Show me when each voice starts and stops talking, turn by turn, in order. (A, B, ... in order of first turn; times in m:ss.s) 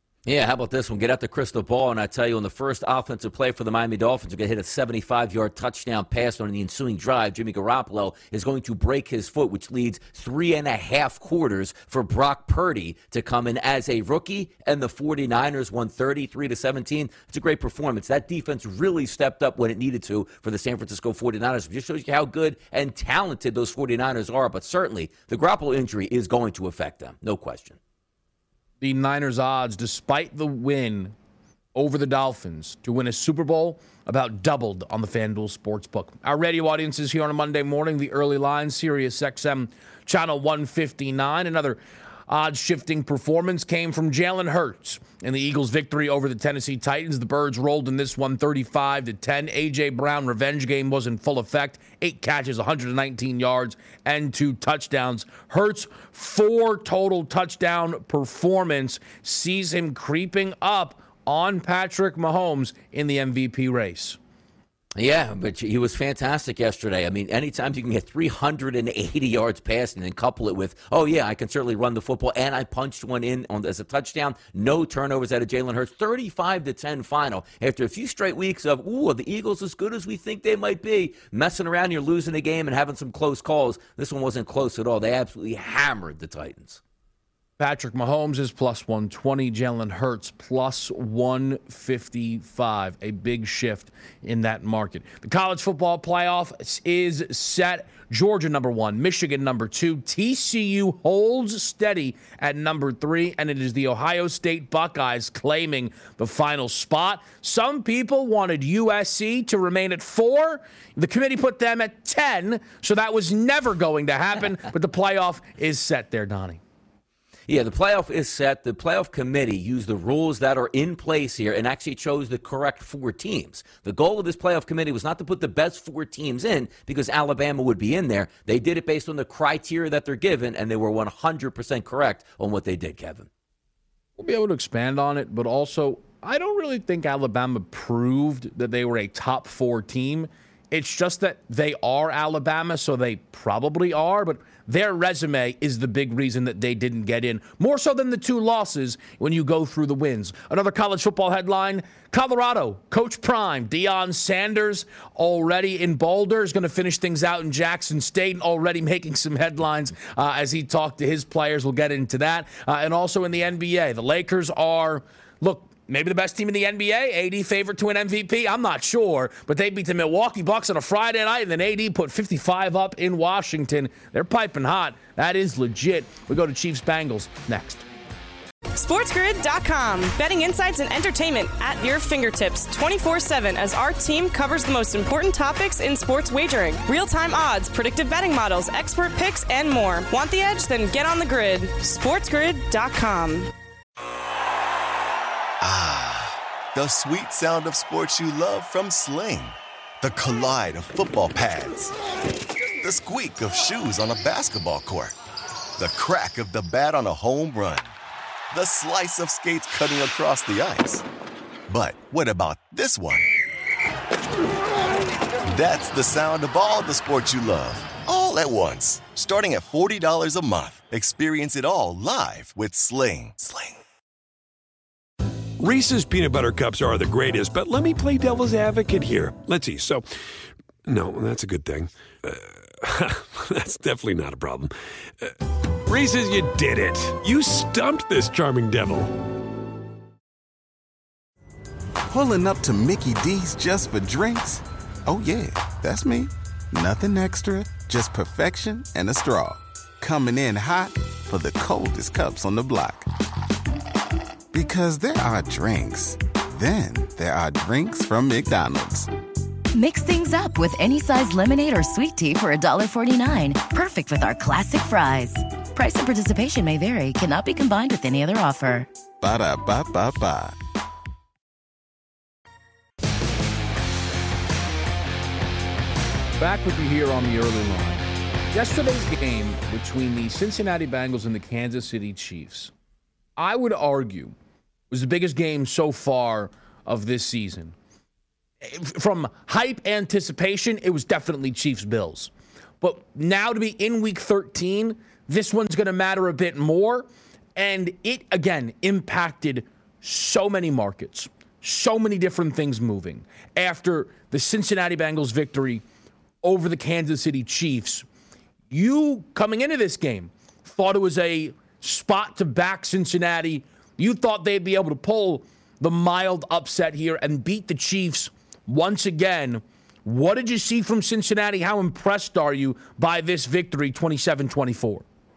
0:00.3-0:27.8 A
0:28.8-0:31.2 B
0:31.8-1:04.2 B
1:05.0-1:26.8 A
1:27.6-1:56.6 B
1:57.5-2:13.3 A
2:14.2-2:57.9 B
2:58.8-3:13.5 C
3:15.6-3:22.0 D
3:22.8-3:25.2 D
3:25.8-3:27.9 D
3:28.5-3:31.0 D
3:31.7-3:33.4 D
3:35.4-3:43.8 D
3:45.6-3:50.0 E
3:50.8-3:59.1 E
4:02.1-4:13.1 F
4:14.5-4:19.1 F
4:19.7-4:28.9 G
4:29.2-4:30.6 F
4:36.4-4:42.7 B
4:43.4-4:44.3 B
4:44.9-4:47.8 B
4:48.6-5:05.8 B
5:06.4-5:08.1 B
5:08.7-5:25.0 B